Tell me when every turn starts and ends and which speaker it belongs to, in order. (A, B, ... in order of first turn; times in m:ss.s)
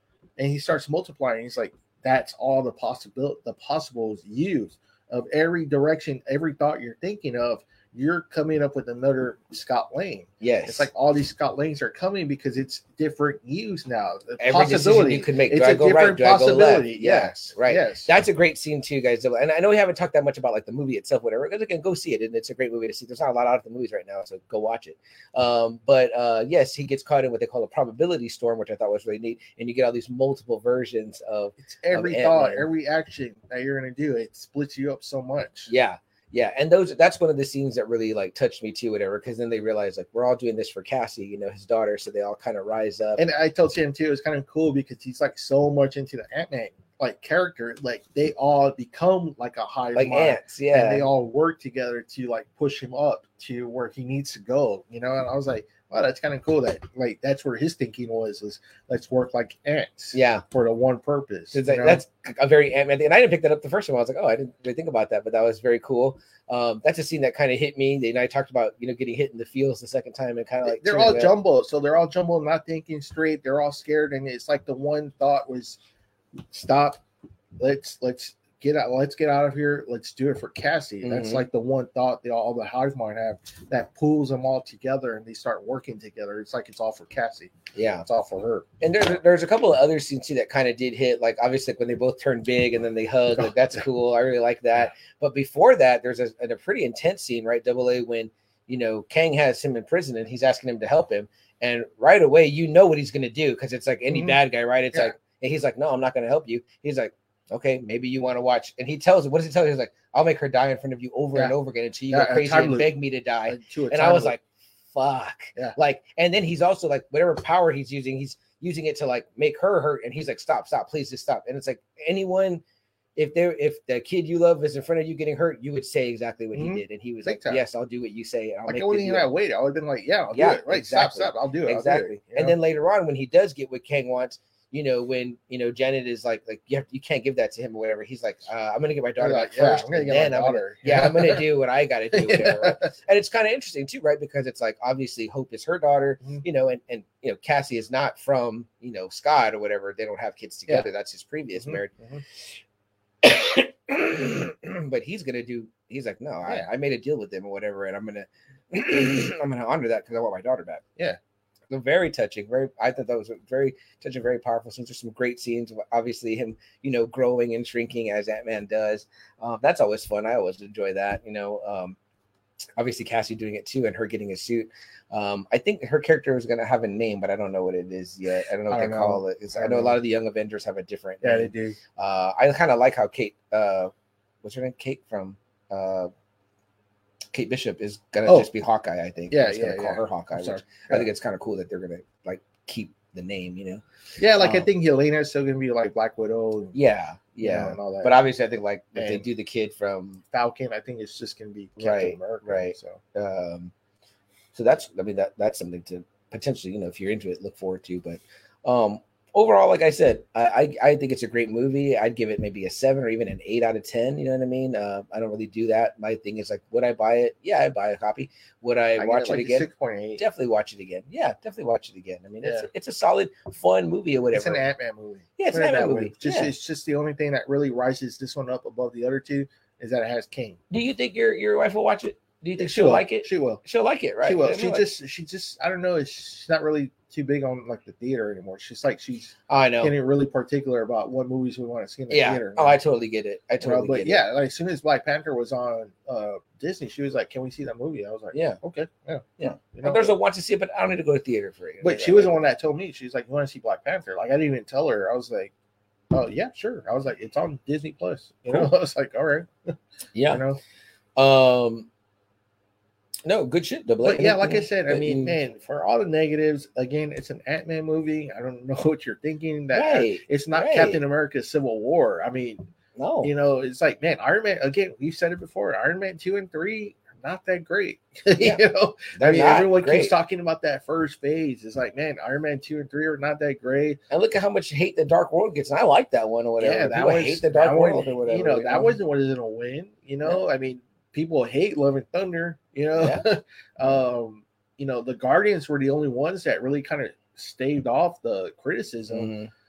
0:00.4-0:18.1 A
0:10.4-0:10.9 B
0:14.4-0:32.7 B
0:31.6-0:35.7 A
0:35.7-0:43.2 B
0:43.2-1:02.0 A
0:49.9-0:51.1 B
1:00.1-1:00.4 B
1:01.5-1:11.3 B
1:10.6-1:15.8 A
1:16.5-1:17.0 A
1:17.6-1:28.7 A
1:21.0-1:21.5 B
1:27.7-1:28.0 B
1:28.8-2:02.6 B
1:44.1-1:44.4 A
1:52.1-1:52.9 A
1:53.4-1:54.4 A
2:03.2-2:09.3 B
2:06.5-2:07.6 A
2:08.7-2:12.6 A
2:10.3-2:31.9 B
2:19.2-2:21.4 A
2:22.1-2:22.9 A
2:31.6-2:32.2 A
2:33.2-2:40.8 B
2:41.7-2:52.0 B
2:52.8-3:03.9 B
2:58.7-3:00.0 A
3:01.2-3:01.8 A
3:04.4-3:06.1 B
3:07.3-3:13.8 B
3:09.3-3:11.1 A
3:14.2-3:16.8 A
3:14.4-3:14.7 B
3:16.7-3:20.2 B
3:17.4-3:18.1 A
3:18.9-3:19.3 A
3:20.3-3:23.0 A
3:21.8-3:23.7 B
3:24.5-3:44.6 B
3:39.0-3:40.2 A
3:42.4-3:42.7 A
3:44.3-3:50.6 A
3:45.4-3:46.5 B
3:50.7-3:54.9 B
3:52.6-3:53.6 A
3:54.2-4:02.8 A
3:59.5-3:59.9 B
4:02.1-4:04.2 B
4:03.6-4:10.2 A
4:08.3-4:08.6 B
4:09.4-4:12.4 B
4:11.8-4:15.5 A
4:16.1-4:19.8 A
4:20.1-4:20.4 B
4:20.3-4:20.6 A
4:21.2-4:21.9 B
4:23.2-4:25.4 B
4:24.0-4:32.7 A
4:29.7-4:31.0 B
4:33.0-4:33.3 B
4:33.2-4:44.0 A
4:39.1-4:40.1 B
4:44.1-4:49.0 B
4:46.6-4:59.3 A
4:53.0-4:53.2 B
4:59.1-4:59.5 B